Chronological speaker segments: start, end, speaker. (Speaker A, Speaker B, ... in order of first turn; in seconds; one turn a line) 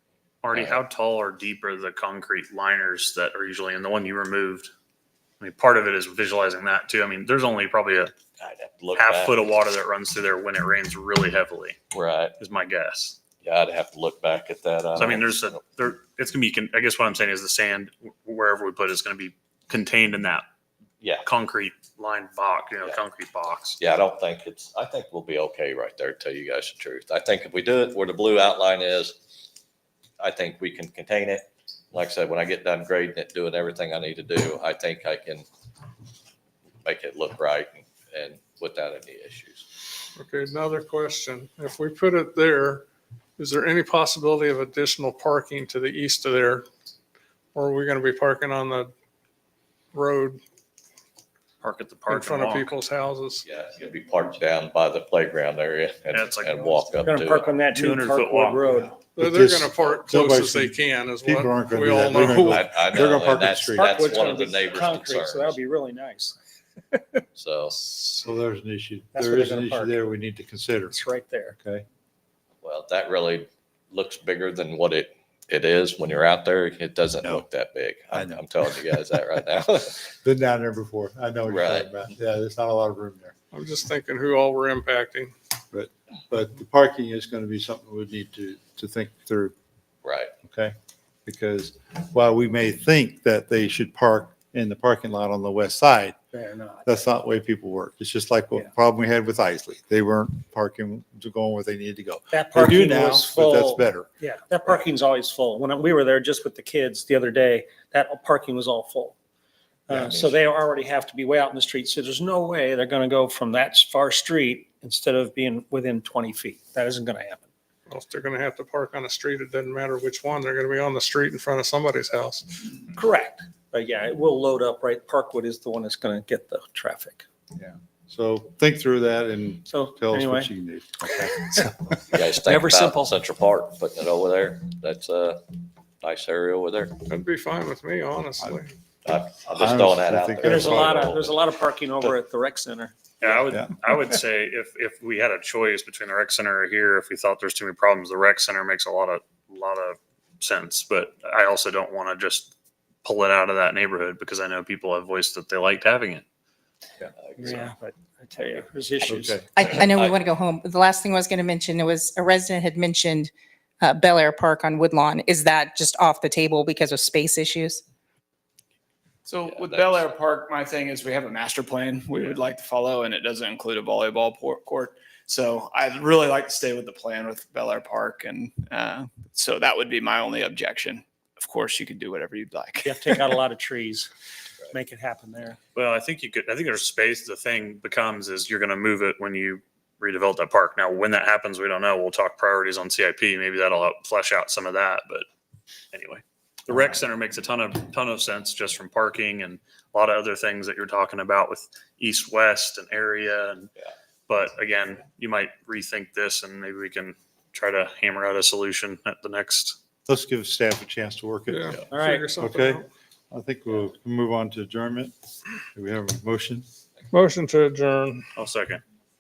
Speaker A: 0.4-4.7
Speaker B: 0.5-0.8
Speaker A: 5.4-8.1
Speaker B: 8.4-9.4
Speaker A: 9.0-11.8
Speaker B: 11.9-12.4
Speaker A: 12.4-13.2
Speaker B: 13.4-15.6
Speaker A: 15.0-20.4
Speaker B: 21.0-21.3
Speaker A: 21.2-23.8
Speaker B: 23.8-29.2
Speaker B: 30.2-35.5
Speaker B: 36.9-39.7
Speaker C: 40.2-42.9
Speaker C: 43.4-46.7
Speaker C: 47.5-48.9
Speaker C: 49.9-50.4
Speaker A: 51.6-52.7
Speaker C: 52.1-53.4
Speaker B: 53.4-57.6
Speaker A: 56.1-56.9
Speaker D: 57.0-59.0
Speaker A: 57.7-58.8
Speaker C: 59.1-62.6
Speaker E: 59.2-64.0
Speaker B: 62.2-65.6
Speaker D: 63.7-66.4
Speaker D: 66.9-67.2
Speaker B: 67.3-67.8
Speaker E: 68.0-71.0
Speaker D: 69.1-70.0
Speaker D: 70.9-71.6
Speaker E: 71.6-71.8
Speaker B: 72.6-80.1
Speaker E: 78.1-79.0
Speaker E: 80.2-83.3
Speaker B: 81.5-81.9
Speaker C: 83.5-85.3
Speaker E: 85.7-89.5
Speaker B: 90.0-90.3
Speaker E: 90.4-90.8
Speaker E: 91.3-96.2
Speaker D: 96.3-97.1
Speaker E: 96.8-104.1
Speaker D: 102.3-109.2
Speaker D: 109.9-117.4
Speaker B: 109.9-110.4
Speaker C: 117.9-122.7
Speaker D: 122.9-127.2
Speaker E: 127.5-132.2
Speaker D: 129.7-130.5
Speaker B: 132.1-135.4
Speaker D: 132.4-133.2
Speaker B: 136.0-137.0
Speaker C: 137.1-138.7
Speaker B: 139.1-142.2
Speaker E: 139.5-141.1
Speaker D: 140.4-143.0
Speaker A: 143.2-152.5
Speaker E: 143.3-143.7
Speaker A: 153.0-156.2
Speaker B: 157.2-157.7
Speaker D: 157.4-159.5
Speaker E: 159.1-159.5
Speaker F: 159.6-167.8
Speaker B: 159.9-160.3
Speaker G: 169.2-183.4
Speaker B: 169.4-170.1
Speaker D: 182.8-184.1
Speaker D: 184.7-185.6
Speaker A: 185.8-195.3
Speaker A: 195.9-203.7
Speaker A: 204.3-209.8
Speaker E: 210.1-211.8
Speaker C: 211.5-212.9
Speaker D: 211.9-212.3
Speaker E: 212.4-215.1
Speaker E: 215.7-216.7
Speaker C: 217.1-218.3
Speaker A: 218.4-218.8